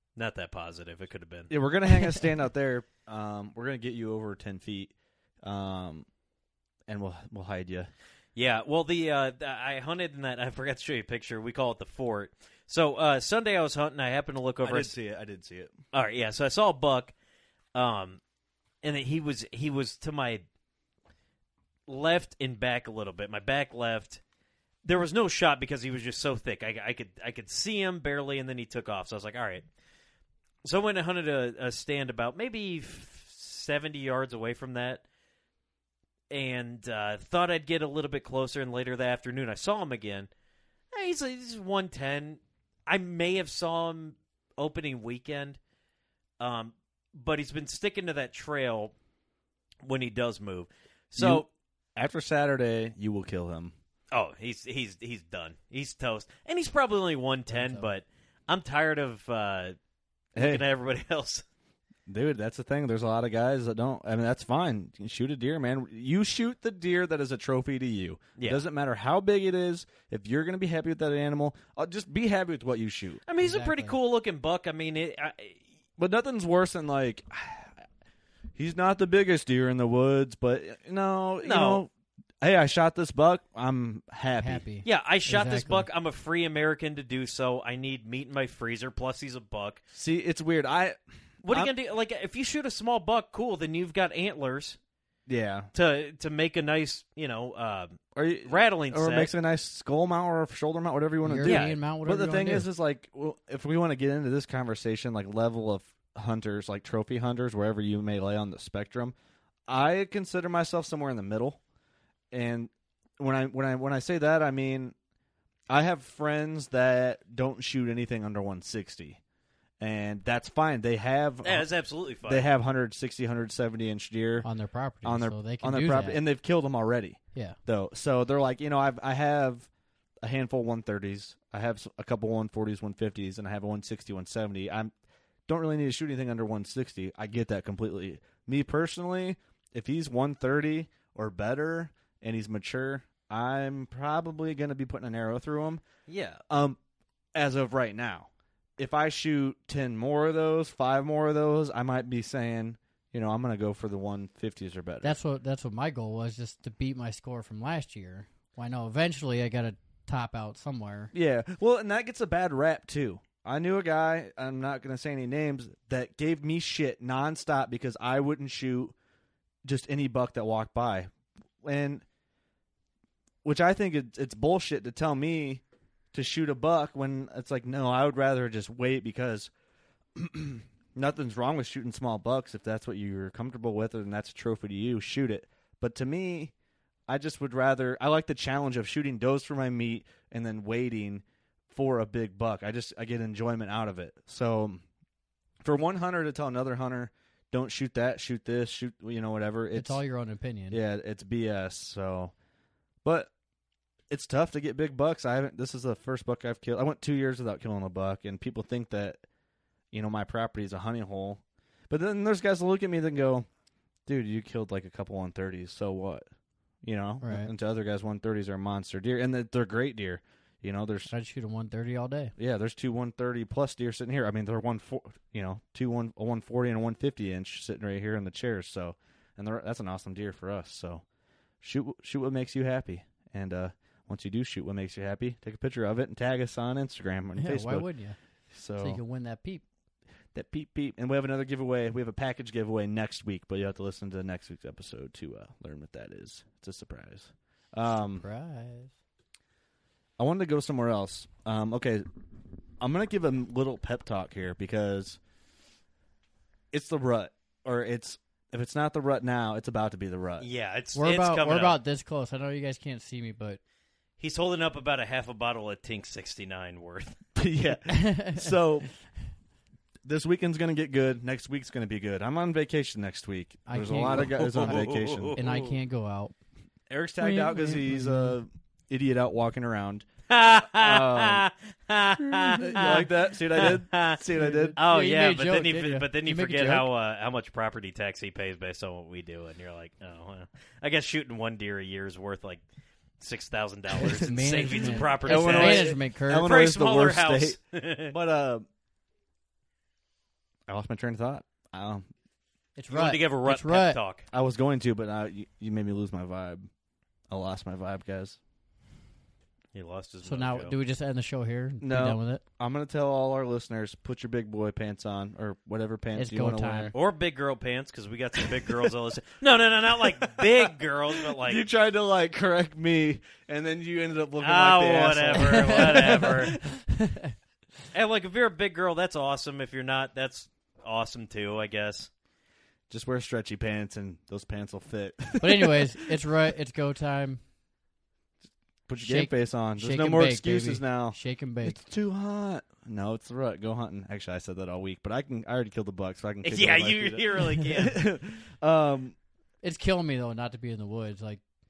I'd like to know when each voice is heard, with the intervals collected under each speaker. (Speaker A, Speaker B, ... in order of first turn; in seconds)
Speaker A: 0.2-1.5, 8.4-14.9, 15.9-17.1, 17.8-18.2, 18.8-20.4, 21.9-24.2, 24.8-29.7, 30.6-35.0, 36.3-40.3, 40.9-45.6, 46.4-48.9, 49.8-51.5, 54.1-59.8, 60.4-61.4, 68.4-68.6, 73.3-75.6, 81.4-81.8, 84.8-89.8, 91.4-94.8, 95.7-99.3, 101.4-101.8, 121.4-122.5, 146.1-146.4, 260.4-261.8, 264.2-267.2, 274.3-275.8, 280.3-284.2, 284.8-292.6, 293.2-298.1, 302.9-304.3, 309.7-310.8, 316.9-321.6, 324.4-326.5, 327.9-332.1, 346.4-348.0
Speaker B: 1.5-6.1, 6.9-7.9, 14.6-15.8, 51.2-51.5, 52.0-53.7, 60.4-60.7, 62.1-73.2, 76.0-77.8, 78.5-81.9, 82.4-84.6, 89.9-91.7, 95.3-95.7, 98.2-109.2, 109.7-111.6, 112.3-115.0, 115.7-119.2, 119.8-121.7, 122.2-124.5, 125.0-129.7, 130.2-134.9, 135.5-145.8, 146.5-146.8, 147.3-155.2, 161.1-168.9, 169.6-171.1, 171.6-172.0, 173.4-179.5, 180.2-186.5, 187.1-194.8, 195.6-200.0, 200.7-202.3, 203.0-203.3, 204.1-209.2, 209.9-213.5, 214.1-216.3, 216.8-221.1, 222.4-231.0, 231.6-237.9, 238.5-239.0, 240.3-248.2, 250.2-252.1, 252.8-255.2, 256.7-260.5, 267.4-268.9, 270.0-275.4, 276.9-280.1, 280.6-281.5, 282.2-284.8, 295.1-298.7, 300.7-302.1, 304.3-306.7, 307.3-308.4, 311.8-316.9, 320.2-326.8, 332.9-336.1, 338.9-349.1
Speaker C: 57.5-57.9, 73.4-74.0, 84.4-85.9, 101.2-102.7, 124.4-126.2, 155.0-161.1, 199.8-200.8, 217.2-217.5, 221.1-222.3, 237.4-238.2, 238.8-239.6, 248.2-248.9, 261.0-263.6, 267.9-268.5, 273.7-274.8, 275.4-276.3, 277.2-278.4, 284.3-286.9, 294.0-296.5, 302.8-304.0, 310.2-312.4, 316.1-316.9, 325.4-327.3, 335.4-337.4, 339.0-341.8, 349.6-351.4